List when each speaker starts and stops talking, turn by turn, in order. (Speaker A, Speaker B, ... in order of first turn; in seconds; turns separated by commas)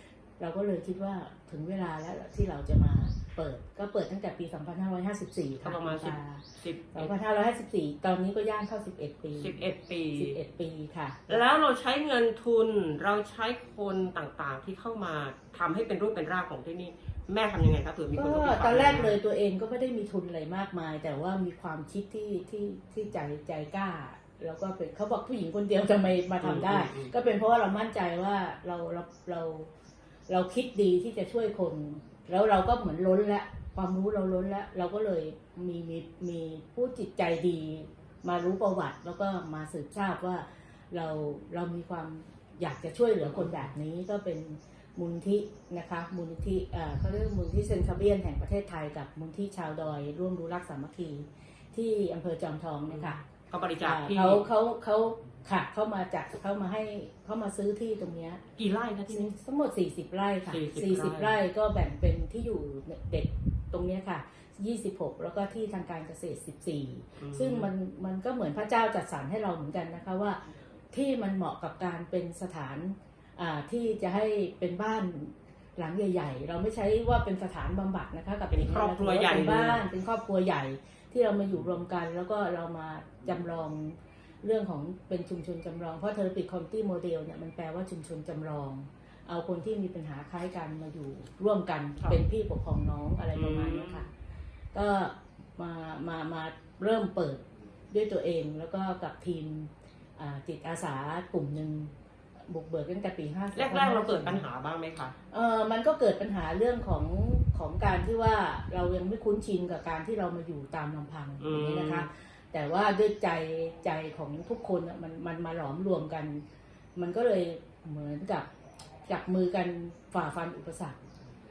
Speaker A: 0.4-9.6, Speaker B: 5.6-7.1, Speaker B: 9.4-10.4, Speaker A: 10.1-11.4, Speaker B: 11.3-19.2, Speaker A: 18.2-29.7, Speaker B: 26.4-27.1, Speaker A: 30.3-53.2, Speaker B: 52.9-54.5, Speaker A: 53.8-58.4, Speaker B: 58.6-59.3, Speaker A: 59.1-70.4, Speaker B: 60.5-61.4, Speaker B: 67.2-67.7, Speaker A: 70.9-94.1, Speaker B: 78.5-79.8, Speaker B: 93.4-94.1, Speaker A: 94.7-101.9, Speaker A: 102.5-104.4, Speaker B: 103.5-105.2, Speaker A: 105.3-116.4, Speaker B: 111.4-112.1, Speaker A: 117.0-118.5, Speaker A: 119.1-121.0